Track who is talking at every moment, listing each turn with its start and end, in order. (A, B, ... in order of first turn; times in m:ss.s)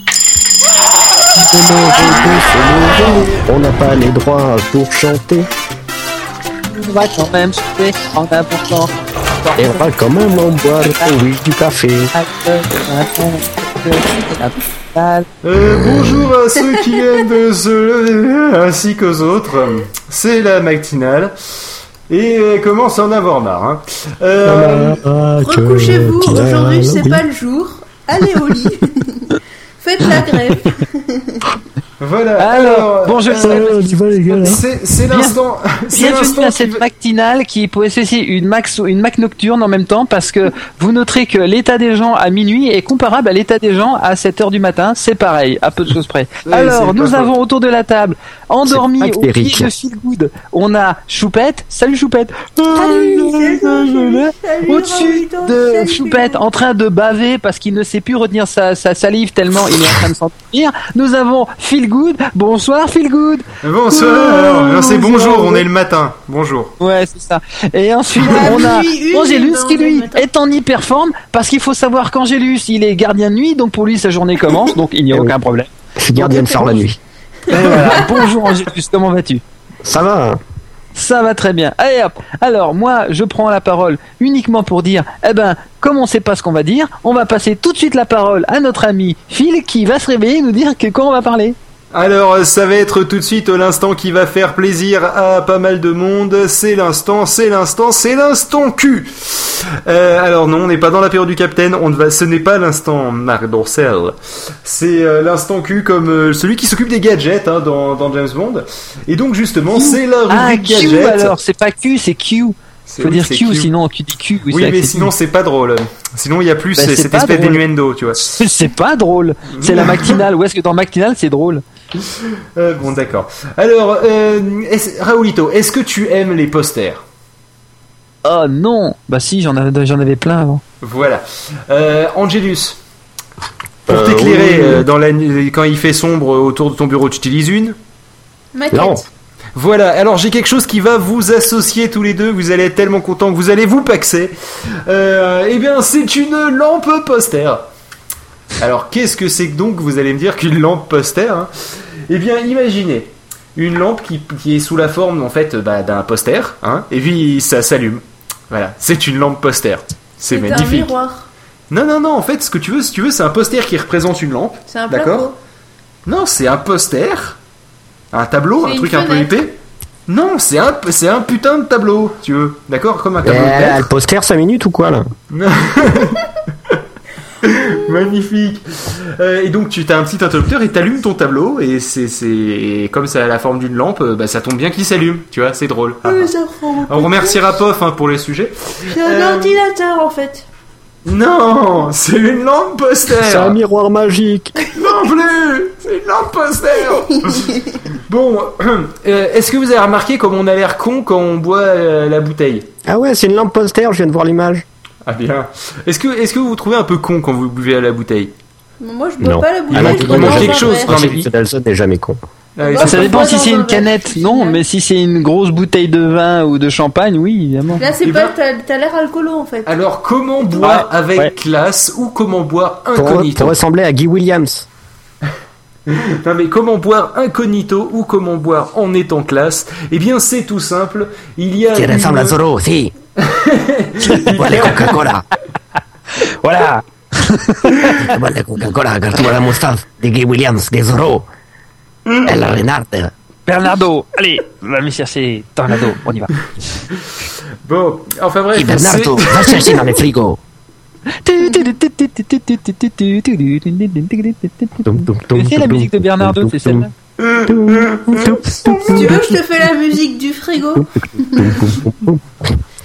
0:01.4-0:05.5 A
0:06.7-0:09.8 B
0:09.6-0:12.1 A
0:10.5-0:11.1 B
0:12.1-0:15.2 B
0:15.4-0:21.3 C
0:16.6-0:17.1 D
0:22.1-0:25.0 C
0:24.4-0:27.2 A
0:25.4-0:31.4 D
0:32.0-0:33.8 C
0:32.4-0:35.4 B
0:33.4-0:34.6 A
0:34.3-0:36.8 C
0:35.9-1:03.4 B
0:46.5-0:47.3 C
0:48.6-0:49.7 A
0:52.7-0:56.4 D
1:03.6-1:06.7 C
1:03.9-1:05.6 D
1:06.8-1:15.7 B
1:08.2-1:10.3 D
1:16.0-1:17.0 A
1:16.2-1:16.8 D
1:17.5-1:19.4 B
1:17.9-1:18.3 D
1:19.8-1:20.4 A
1:20.9-1:31.6 B
1:31.9-1:44.1 C
1:44.6-1:51.4 C
1:49.7-1:55.1 B
1:52.9-1:53.7 C
1:54.5-1:58.3 C
1:56.8-1:57.6 B
1:58.2-2:01.6 B
1:59.6-2:00.2 C
2:02.6-2:07.0 C
2:08.2-2:10.6 B
2:10.8-2:12.8 C
2:13.9-2:14.8 A
2:13.9-2:17.8 C
2:18.5-2:19.0 D
2:18.7-2:19.0 A
2:19.5-2:24.3 C
2:24.9-2:27.6 C
2:28.6-2:31.5 C
2:32.1-2:40.9 C
2:40.3-2:41.3 D
2:41.7-2:45.3 C
2:44.7-2:45.3 D
2:46.0-2:47.4 C
2:48.1-2:49.5 C
2:48.6-2:49.5 D
2:50.1-2:53.8 C
2:53.2-2:55.0 A
2:55.3-2:56.2 C
2:57.4-3:06.3 C
3:06.0-3:07.6 D
3:06.9-3:09.6 C
3:08.9-3:10.4 D
3:11.0-3:13.6 C
3:13.2-3:14.5 A
3:14.7-3:17.4 C
3:17.2-3:17.6 D
3:18.1-3:22.7 C
3:22.9-3:24.6 A
3:25.0-3:28.3 C
3:28.8-3:31.1 D
3:29.2-3:32.2 A
3:29.7-3:31.2 C
3:32.6-3:33.2 C
3:32.6-3:34.6 D
3:32.8-3:37.8 B
3:37.8-3:39.7 D
3:38.0-3:38.3 C
3:39.6-3:43.6 C
3:40.4-3:40.7 D
3:40.6-3:41.3 B
3:42.9-3:44.7 A
3:45.9-3:52.4 C
3:51.7-3:52.9 A
3:53.2-3:55.0 C
3:54.1-3:54.9 B
3:54.3-3:55.2 A
3:56.4-3:58.1 B
3:58.1-4:01.2 A
4:02.2-4:03.1 A
4:03.4-4:06.5 B
4:07.6-4:09.8 C
4:08.5-4:10.4 A
4:11.2-4:16.9 B
4:14.8-4:16.9 A
4:17.2-4:19.0 C
4:17.5-4:19.3 A
4:18.8-4:21.6 D
4:20.7-4:22.4 A